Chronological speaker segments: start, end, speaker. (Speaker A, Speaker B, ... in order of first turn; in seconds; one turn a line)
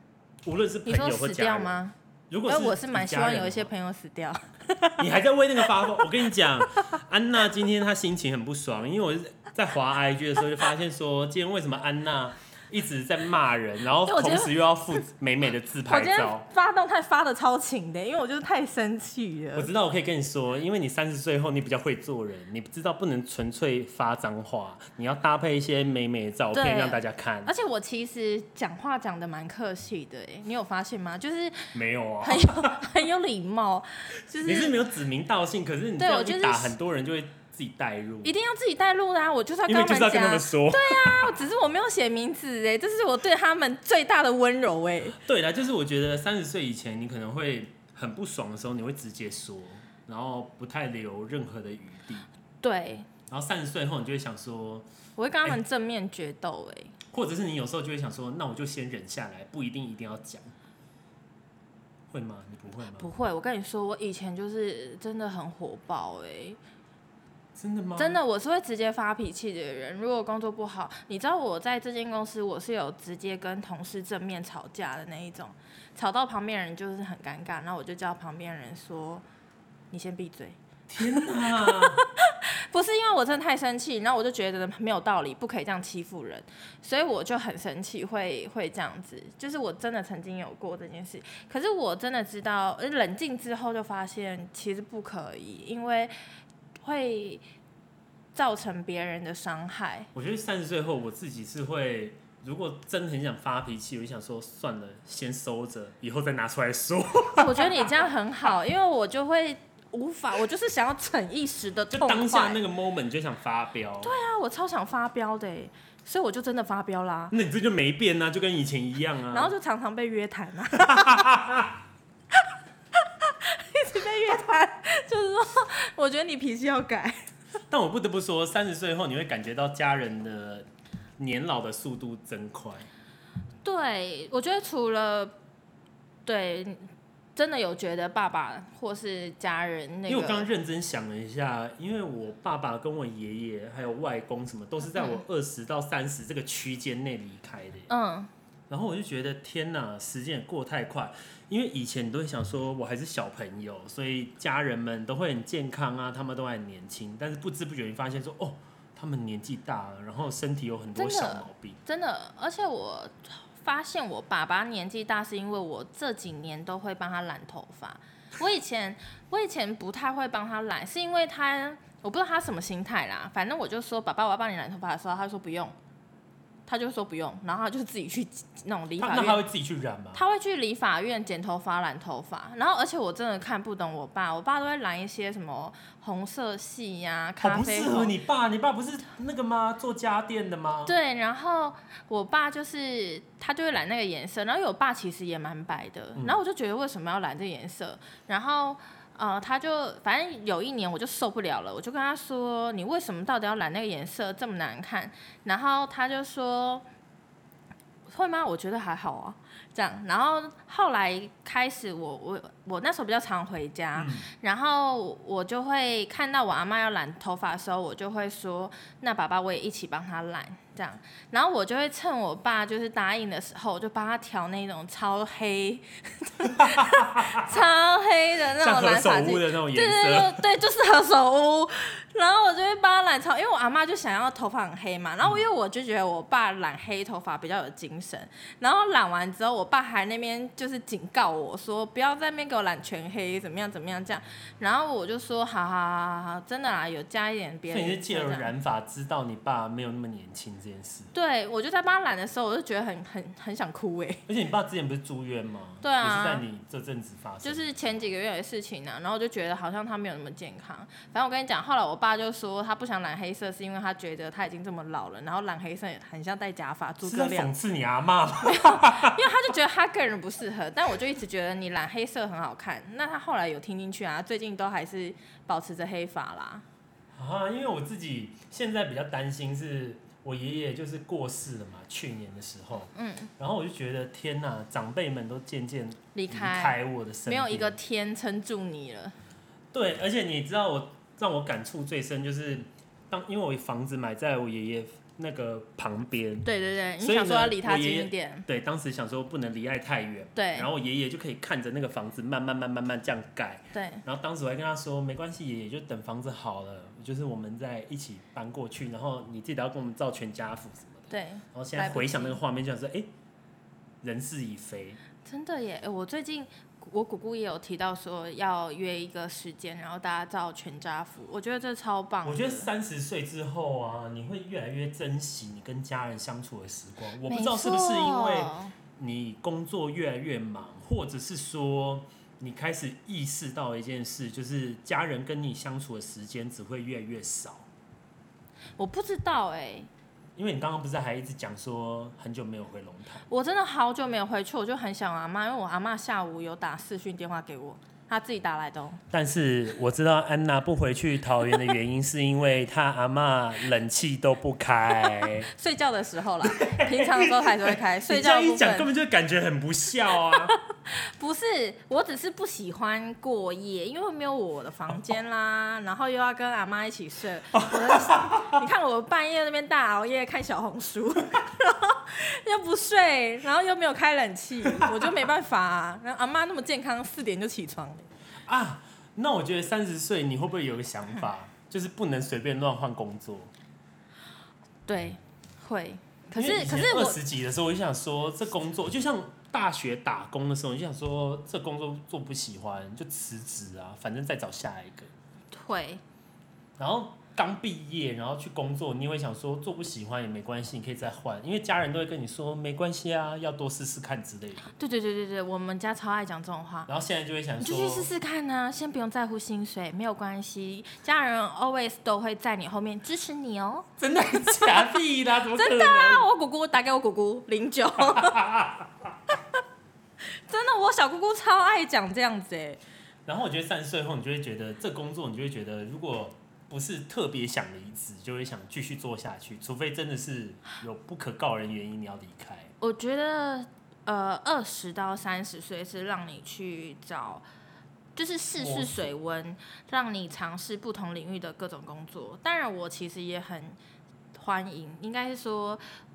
Speaker A: 0.5-3.7
Speaker B: 0.9-1.9
Speaker B: 2.5-5.0
Speaker A: 5.0-16.5
Speaker B: 14.1-14.5
Speaker B: 15.9-19.7
Speaker A: 19.6-27.5
Speaker B: 26.5-31.7
Speaker A: 31.7-32.9
Speaker B: 32.2-34.8
Speaker A: 34.4-38.3
Speaker B: 36.0-36.8
Speaker B: 38.2-45.2
Speaker A: 39.7-41.4
Speaker A: 45.1-52.3
Speaker B: 52.6-53.1
Speaker A: 53.3-54.9
Speaker B: 55.2-57.0
Speaker A: 57.1-60.5
Speaker A: 62.1-63.1
Speaker B: 63.0-66.6
Speaker A: 67.6-68.2
Speaker B: 68.0-79.2
Speaker B: 79.9-80.6
Speaker A: 80.9-82.0
Speaker B: 81.2-96.1
Speaker B: 96.8-97.4
Speaker B: 98.3-100.1
Speaker A: 100.1-108.0
Speaker B: 107.3-112.6
Speaker A: 111.9-114.1
Speaker B: 114.0-117.3
Speaker A: 117.3-119.5
Speaker B: 119.3-121.3
Speaker A: 120.7-121.8
Speaker B: 122.3-127.3
Speaker A: 127.7-130.7
Speaker A: 131.2-132.9
Speaker B: 133.6-135.3
Speaker B: 136.3-140.5
Speaker A: 140.1-147.9
Speaker B: 144.9-145.2
Speaker B: 147.9-148.3
Speaker A: 148.7-161.8
Speaker B: 161.0-175.8
Speaker B: 176.7-179.4
Speaker A: 179.0-180.2
Speaker B: 180.1-188.1
Speaker A: 187.4-190.9
Speaker B: 190.9-206.8
Speaker B: 208.1-248.5
Speaker A: 213.9-214.3
Speaker A: 226.5-227.5
Speaker A: 228.6-230.4
Speaker A: 247.7-251.1
Speaker B: 251.1-254.2
Speaker A: 254.3-258.0
Speaker B: 255.8-256.4
Speaker B: 257.4-267.5
Speaker A: 267.0-269.2
Speaker B: 268.4-276.6
Speaker A: 277.1-287.8
Speaker B: 282.9-283.3
Speaker B: 286.1-289.1
Speaker A: 289.7-296.5
Speaker B: 296.4-298.5
Speaker A: 297.0-313.1
Speaker B: 300.4-300.7
Speaker B: 303.7-304.0
Speaker B: 311.1-312.4
Speaker A: 314.0-315.0
Speaker B: 315.2-322.7
Speaker A: 322.2-337.7
Speaker B: 327.3-328.7
Speaker B: 338.8-339.9
Speaker A: 340.4-343.3
Speaker B: 343.3-349.0
Speaker A: 349.1-355.5
Speaker B: 355.0-358.9
Speaker A: 356.4-360.5
Speaker B: 360.2-378.1
Speaker A: 367.5-368.6
Speaker A: 374.7-375.1
Speaker A: 378.5-383.5
Speaker B: 384.9-387.2
Speaker A: 386.3-395.1
Speaker B: 395.5-396.0
Speaker A: 396.8-404.7
Speaker B: 404.7-406.9
Speaker A: 406.9-408.1
Speaker B: 407.6-413.9
Speaker A: 414.0-416.3
Speaker B: 414.5-414.9
Speaker B: 415.5-418.4
Speaker A: 418.0-419.1
Speaker B: 420.3-422.8
Speaker A: 423.3-432.7
Speaker B: 432.8-437.4
Speaker B: 438.2-443.8
Speaker A: 438.6-439.1
Speaker B: 444.3-445.8